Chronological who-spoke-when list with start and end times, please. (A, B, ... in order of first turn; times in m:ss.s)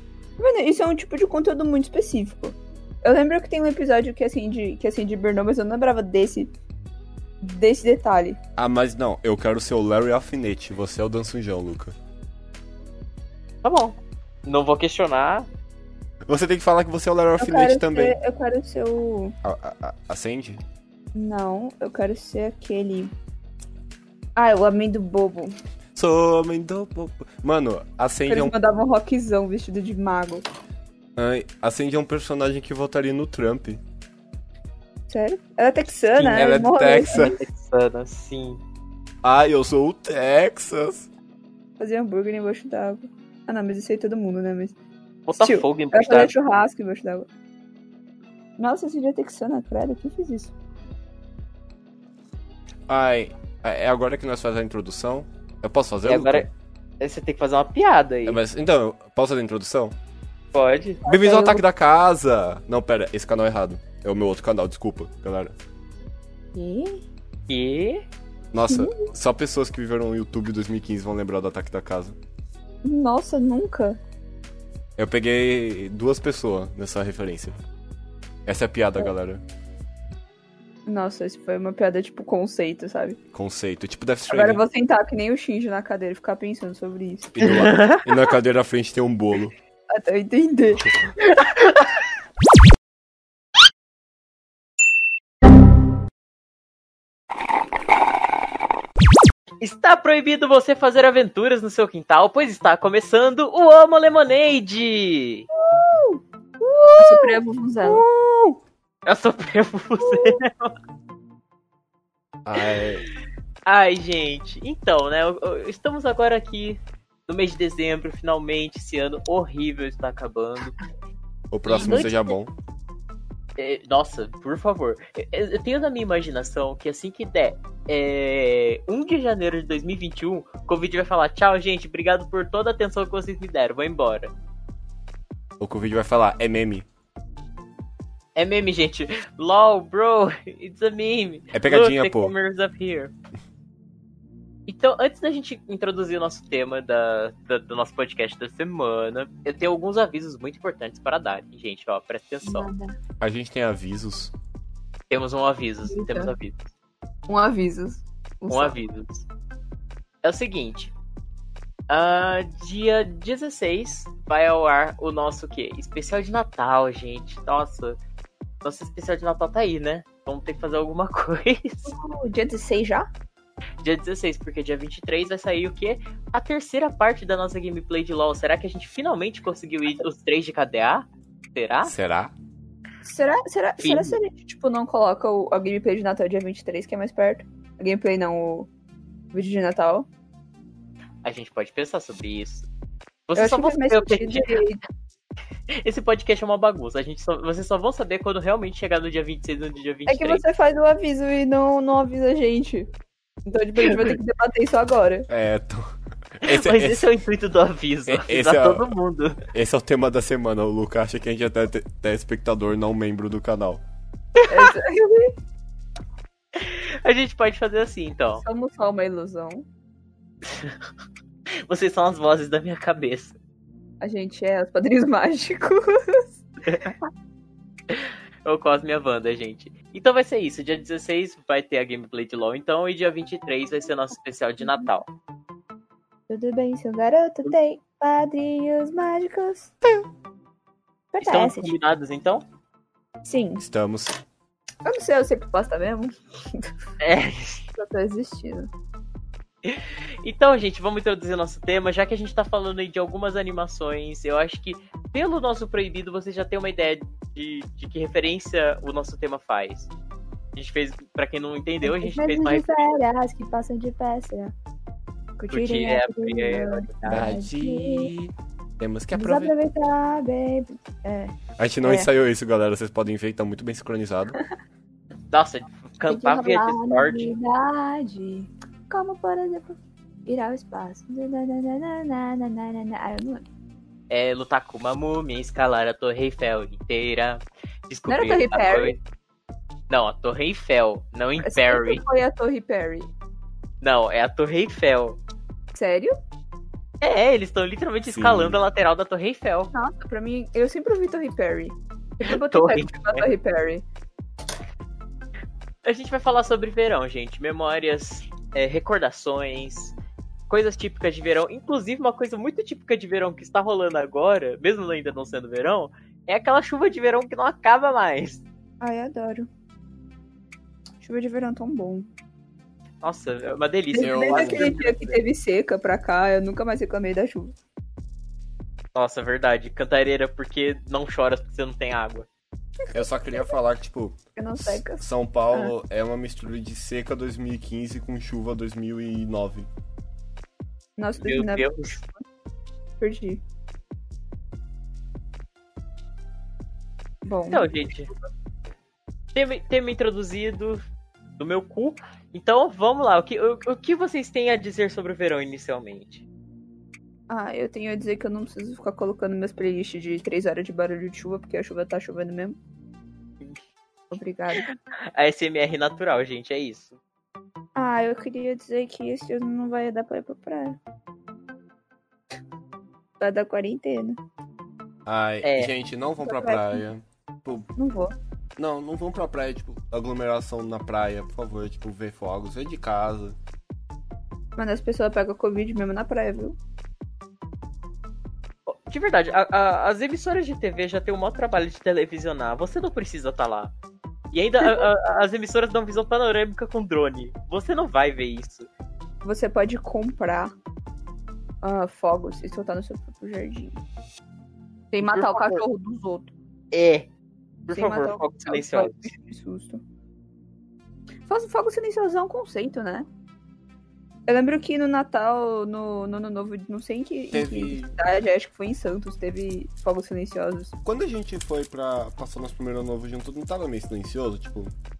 0:00.4-0:06.5 A
0:07.4-0:08.4 A
0:08.6-0:11.9 B
0:13.6-0:15.5 C
0:16.3-0:18.2 B
0:17.4-0:19.4 A
0:19.4-0:20.6 B
0:21.1-0:23.1 A
0:24.4-0:25.5 A
0:25.9-0:28.6 B
0:28.3-0:30.4 A
0:31.2-0:33.8 B
0:35.1-0:37.3 A
0:36.1-0:37.4 B
0:37.1-0:38.6 C
0:39.2-0:41.1 B
0:41.8-0:44.8 A
0:45.3-0:46.3 C
0:45.4-0:47.3 A
0:48.6-0:50.5 A
0:52.9-0:56.5 B
0:56.0-0:56.5 C
0:57.0-0:58.4 C
0:58.2-1:00.0 B
1:00.5-1:01.0 C
1:01.0-1:01.6 A
1:01.0-1:05.5 B
1:06.5-1:07.0 A
1:07.5-1:08.0 C
1:08.5-1:12.2 B
1:08.7-1:09.1 A
1:12.8-1:14.0 A
1:15.0-1:17.6 B
1:18.4-1:19.4 B
1:20.9-1:23.2 A
1:23.3-1:24.6 B
1:24.3-1:27.4 A
1:27.3-1:29.5 B
1:27.4-1:28.1 C
1:29.9-1:30.9 A
1:39.6-1:45.5 C
1:45.5-1:46.2 A
1:46.7-1:47.1 B
1:46.9-1:48.0 A
1:47.8-1:48.6 B
1:49.0-1:50.7 C
1:52.4-1:53.1 B
1:53.6-2:00.8 C
2:01.5-2:02.5 B
2:01.7-2:02.3 C
2:03.6-2:14.3 C
2:15.6-2:16.9 B
2:18.4-2:23.1 C
2:21.5-2:22.3 B
2:24.7-2:32.7 C
2:32.4-2:33.0 A
2:33.2-2:34.3 B
2:35.1-2:36.6 C
2:35.9-2:36.3 A
2:37.3-2:38.8 A
2:38.5-2:39.2 C
2:40.2-2:40.9 C
2:41.9-2:48.0 C
2:48.6-2:51.9 C
2:51.8-2:53.1 A
2:53.8-3:01.9 C
3:01.8-3:02.3 B
3:03.0-3:08.7 A
3:03.8-3:04.2 C
3:09.3-3:10.1 A
3:11.2-3:12.7 C
3:13.3-3:14.6 C
3:13.4-3:14.8 A
3:15.7-3:20.4 C
3:20.1-3:22.9 A
3:23.4-3:25.3 A
3:23.8-3:24.2 C
3:25.3-3:27.0 B
3:26.4-3:29.5 C
3:28.1-3:28.9 B
3:29.5-3:33.8 B
3:34.4-3:34.7 C
3:34.4-3:35.3 A
3:36.5-3:38.4 C
3:38.4-3:39.6 A
3:40.4-3:40.8 C
3:41.6-3:43.4 C
3:44.0-3:46.3 A
3:47.9-3:55.1 C
3:56.3-3:59.7 A
4:01.1-4:01.7 A
4:01.2-4:02.4 C
4:03.2-4:03.6 A
4:03.6-4:04.2 B
4:04.8-4:06.7 A
4:07.0-4:07.6 C
4:07.8-4:08.7 A
4:09.6-4:19.9 C
4:20.6-4:23.0 C
4:21.8-4:24.5 A
4:25.4-4:28.1 A
4:25.5-4:27.3 C
4:27.0-4:29.5 B
4:29.1-4:32.1 A
4:31.6-4:34.4 B
4:35.3-4:37.3 C
4:36.1-4:43.4 A
4:44.1-4:49.0 C
4:48.1-4:48.9 A
4:49.9-4:52.0 C
4:51.4-4:53.1 A
4:53.8-4:55.2 C
4:55.7-4:56.1 A
4:57.0-4:59.7 C
4:58.0-4:58.6 B
4:59.7-5:03.8 A
5:02.2-5:03.3 C
5:05.8-5:09.9 C
5:10.5-5:18.4 C
5:18.8-5:19.5 A
5:21.0-5:22.1 A
5:23.0-5:25.2 C
5:23.9-5:27.5 A
5:24.0-5:24.7 B
5:28.9-5:32.3 C
5:32.9-5:39.7 B
5:34.4-5:35.7 A
5:41.0-5:42.2 A
5:41.2-5:42.0 C
5:43.0-5:43.4 A
5:47.2-5:47.7 A
5:47.5-5:48.1 C
5:49.3-5:50.8 C
5:51.4-5:56.2 C
5:57.3-6:02.6 A
6:04.1-6:04.7 A
6:04.5-6:07.0 C
6:07.8-6:10.8 A
6:13.2-6:14.2 A
6:15.0-6:17.7 B
6:15.4-6:15.7 C
6:16.2-6:16.9 A
6:17.8-6:18.1 A
6:18.6-6:23.4 B
6:24.6-6:26.6 A
6:28.7-6:33.7 C
6:34.3-6:38.7 C
6:39.2-6:40.5 A
6:41.6-6:43.8 A
6:44.9-6:46.3 A
6:45.0-6:45.6 C
6:46.7-6:47.1 C
6:47.7-6:49.1 C
6:47.7-6:49.8 A
6:51.3-6:53.1 A
6:54.3-7:00.7 A
6:57.3-6:58.0 B
7:00.8-7:04.7 B